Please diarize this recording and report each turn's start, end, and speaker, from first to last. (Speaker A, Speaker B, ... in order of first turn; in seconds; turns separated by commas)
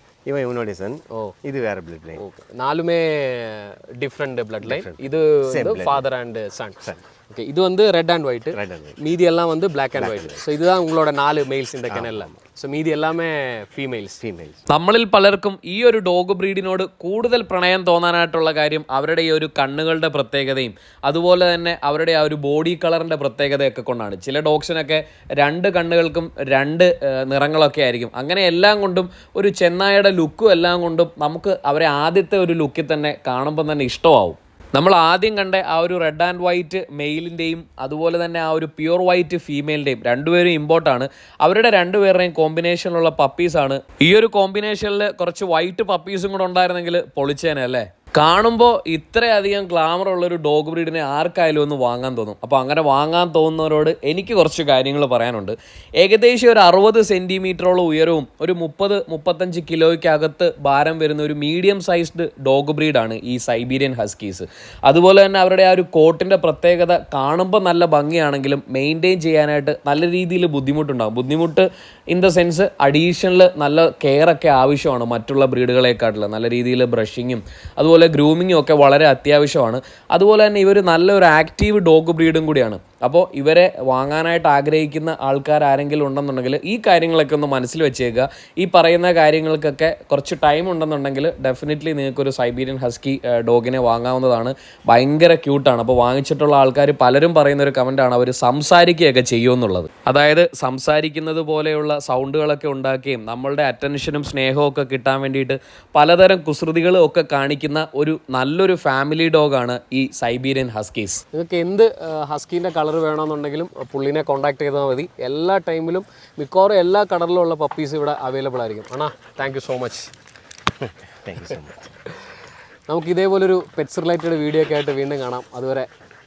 Speaker A: 0.2-2.2, Speaker B: 2.2-14.2, Speaker A: 4.6-6.0, Speaker A: 8.5-9.0, Speaker A: 9.9-10.4, Speaker A: 11.9-12.4, Speaker A: 14.2-14.6, Speaker C: 14.7-111.2, Speaker B: 111.3-120.1, Speaker A: 120.8-121.9, Speaker B: 122.9-125.9